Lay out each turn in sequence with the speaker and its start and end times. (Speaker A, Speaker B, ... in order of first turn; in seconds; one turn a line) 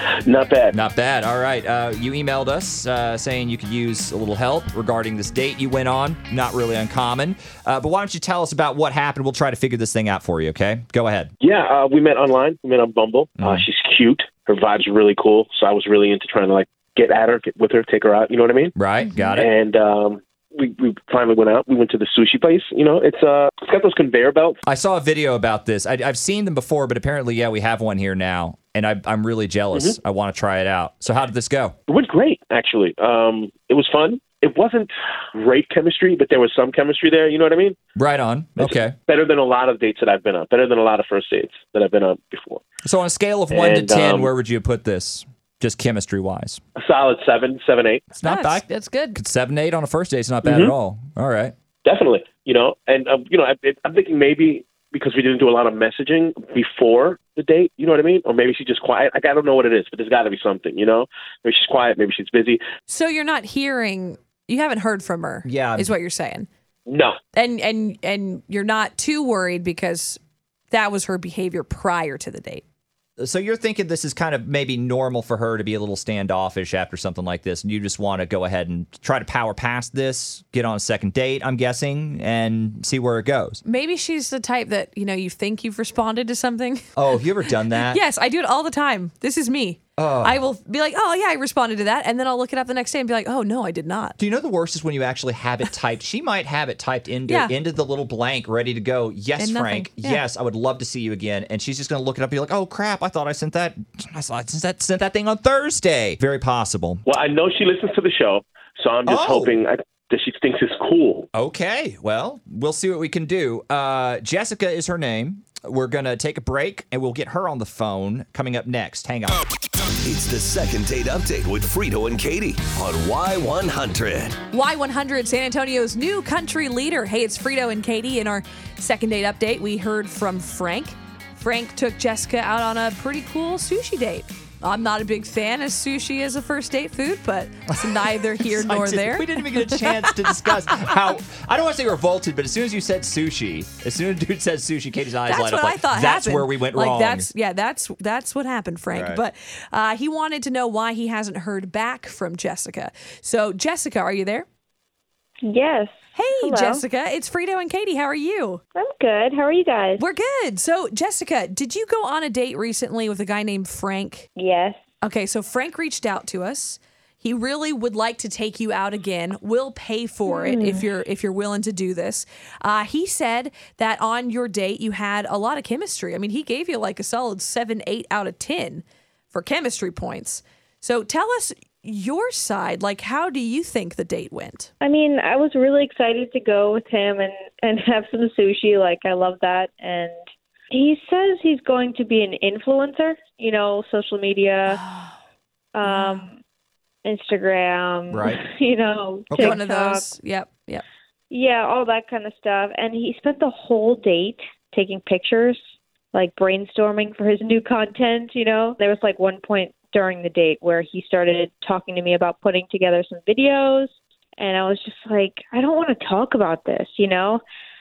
Speaker A: 0.2-0.8
Speaker B: 0.7-11.3
Speaker A: 11.4-18.7
Speaker B: 13.4-13.6
Speaker B: 18.7-19.5
Speaker C: 19.0-19.4
Speaker A: 19.4-24.6
Speaker B: 24.6-31.7
Speaker A: 31.9-37.8
Speaker B: 38.0-38.9
Speaker A: 38.6-42.6
Speaker B: 42.8-46.6
Speaker A: 43.5-44.3
Speaker A: 46.8-48.1
Speaker C: 48.1-49.2
Speaker B: 48.1-51.5
Speaker A: 50.4-50.7
Speaker A: 51.8-62.6
Speaker C: 62.9-66.5
Speaker B: 65.4-65.9
Speaker A: 66.8-67.2
Speaker C: 67.3-72.6
Speaker B: 73.2-83.6
Speaker C: 83.6-86.8
Speaker B: 87.0-88.0
Speaker C: 87.4-94.2
Speaker B: 90.0-90.4
Speaker B: 94.2-107.0
Speaker C: 97.3-97.5
Speaker C: 99.4-100.2
Speaker A: 107.0-111.3
Speaker B: 109.1-109.6
Speaker B: 111.3-119.4
Speaker D: 120.0-124.4
Speaker C: 124.5-141.0
Speaker B: 138.4-147.3
Speaker C: 145.3-154.4
Speaker B: 148.9-149.2
Speaker E: 155.4-156.8
Speaker C: 156.1-158.6
Speaker E: 158.7-160.0
Speaker C: 160.0-164.3
Speaker E: 164.3-164.8
Speaker C: 165.0-184.7
Speaker E: 170.3-170.9
Speaker E: 184.8-190.2
Speaker E: 190.7-194.8
Speaker C: 194.7-195.1
Speaker E: 195.7-196.4
Speaker C: 195.8-196.3
Speaker E: 197.0-200.1
Speaker B: 198.1-198.4
Speaker B: 199.3-199.6
Speaker C: 199.4-200.8
Speaker E: 201.3-205.6
Speaker E: 206.1-217.4